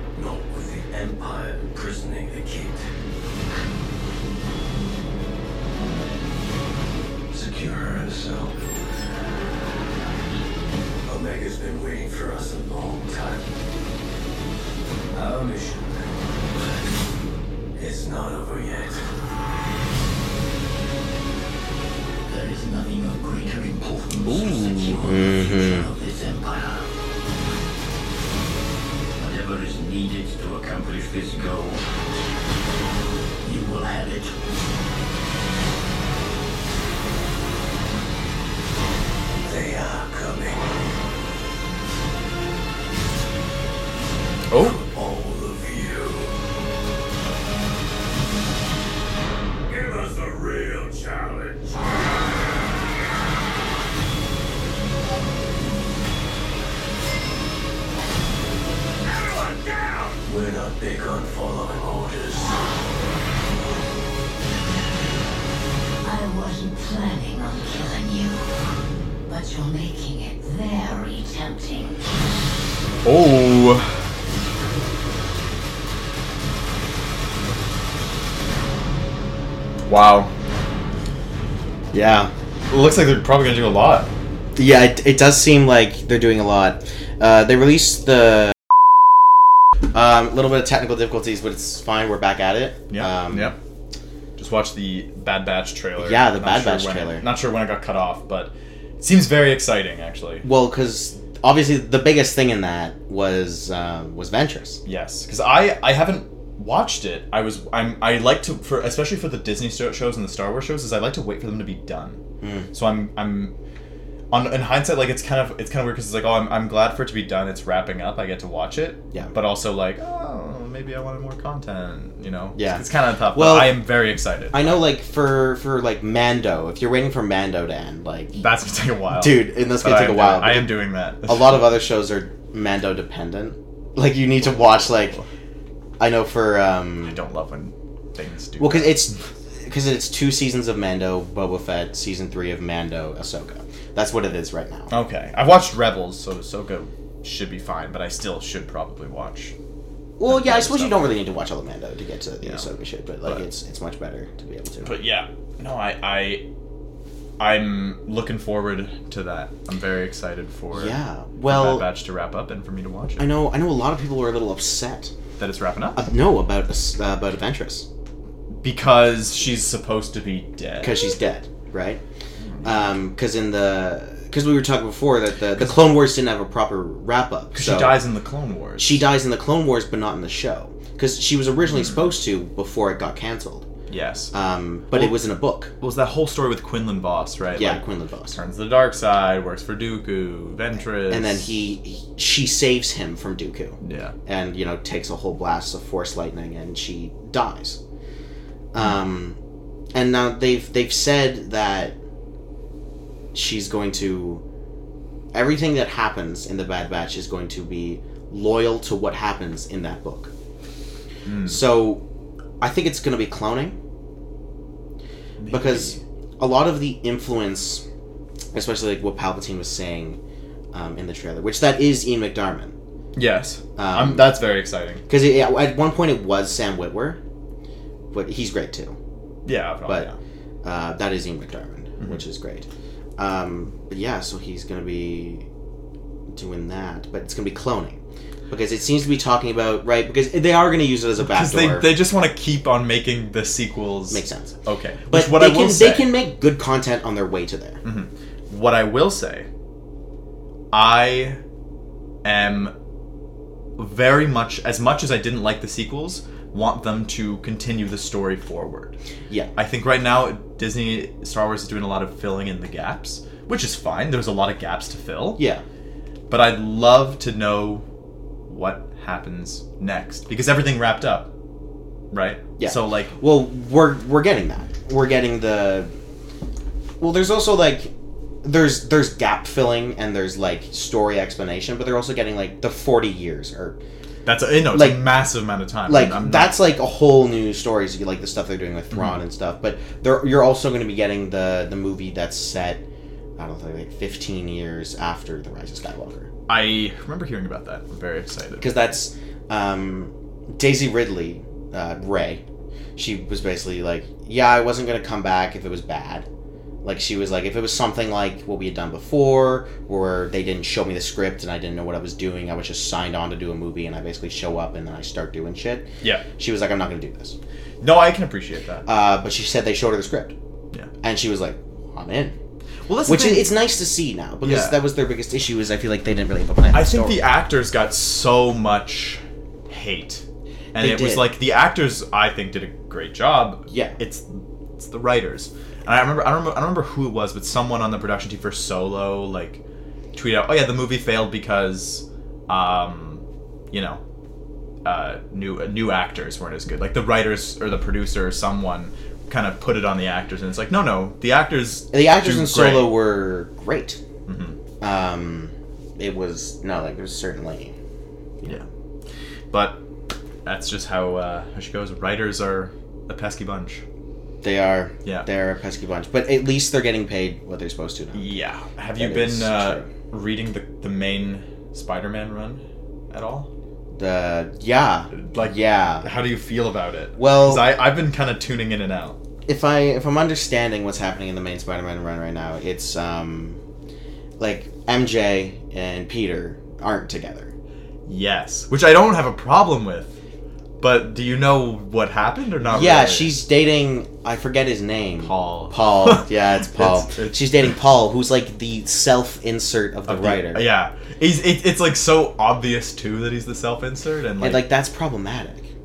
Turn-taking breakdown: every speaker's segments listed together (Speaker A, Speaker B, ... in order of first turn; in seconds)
Speaker A: 0.1-2.9, 7.3-8.6, 11.1-13.5, 15.1-16.8, 17.8-19.1, 22.3-26.9, 29.2-31.8, 33.4-34.4, 39.4-40.7, 44.5-46.3, 49.7-51.8, 59.0-62.6
Speaker B: 24.2-25.0, 44.5-44.8, 73.0-73.9, 79.9-80.3, 82.7-84.1, 92.9-93.6, 94.4-100.5, 104.8-112.2, 112.7-113.5, 114.3-124.8, 128.4-131.7, 134.4-135.3, 137.1-139.2, 144.9-149.6, 150.3-151.2, 154.8-156.4, 157.4-163.3, 165.4-166.0, 168.6-171.0, 172.4-172.9, 177.5-179.0, 183.9-184.3, 184.9-185.2, 185.8-191.5, 193.8-194.2, 211.3-211.6, 215.4-216.0, 223.2-225.0, 229.4-230.2, 241.2-246.1, 247.8-249.5, 250.7-251.4, 252.2-252.7, 253.8-259.0, 259.6-265.4, 266.3-267.9, 268.5-271.3, 272.1-273.1, 284.2-286.6, 288.9-289.2, 296.5-298.8, 317.8-318.9, 322.9-323.6, 324.4-324.8, 326.7-339.6, 340.1-344.0, 344.9-352.9, 354.3-354.6, 359.5-359.8, 360.4-363.8, 368.1-373.5, 375.1-379.2, 388.1-390.2, 390.8-393.4, 395.2-397.7, 400.1-404.6
Speaker C: 25.0-25.9, 81.9-82.3, 84.6-88.6, 89.9-93.5, 96.0-97.2, 100.4-104.8, 112.4-112.7, 122.6-123.9, 124.5-128.4, 129.2-135.2, 136.0-137.2, 138.6-144.9, 150.2-155.0, 160.7-161.9, 163.2-165.1, 166.0-167.9, 170.8-172.0, 172.6-178.0, 178.8-183.7, 184.3-185.7, 187.6-188.4, 191.1-197.8, 198.7-199.4, 199.9-202.0, 203.3-204.4, 205.3-210.3, 211.4-212.0, 212.6-213.8, 215.5-217.8, 218.5-220.2, 220.7-222.7, 223.8-224.4, 225.1-227.2, 228.1-229.0, 230.6-235.5, 236.3-238.0, 238.5-241.9, 244.1-244.5, 245.1-247.8, 265.4-265.6, 272.6-275.9, 277.0-277.9, 278.4-283.8, 284.7-285.1, 285.9-292.8, 293.4-296.3, 298.6-302.4, 303.0-306.3, 306.8-317.4, 318.9-320.3, 321.0-322.4, 323.1-327.2, 330.8-331.3, 333.7-334.0, 351.9-354.0, 354.8-357.7, 364.4-368.3, 369.0-369.9, 373.9-376.1, 377.2-377.7, 379.5-383.6, 384.4-387.5, 392.7-400.6, 404.4-405.7
Speaker D: 66.0-68.5, 69.3-71.9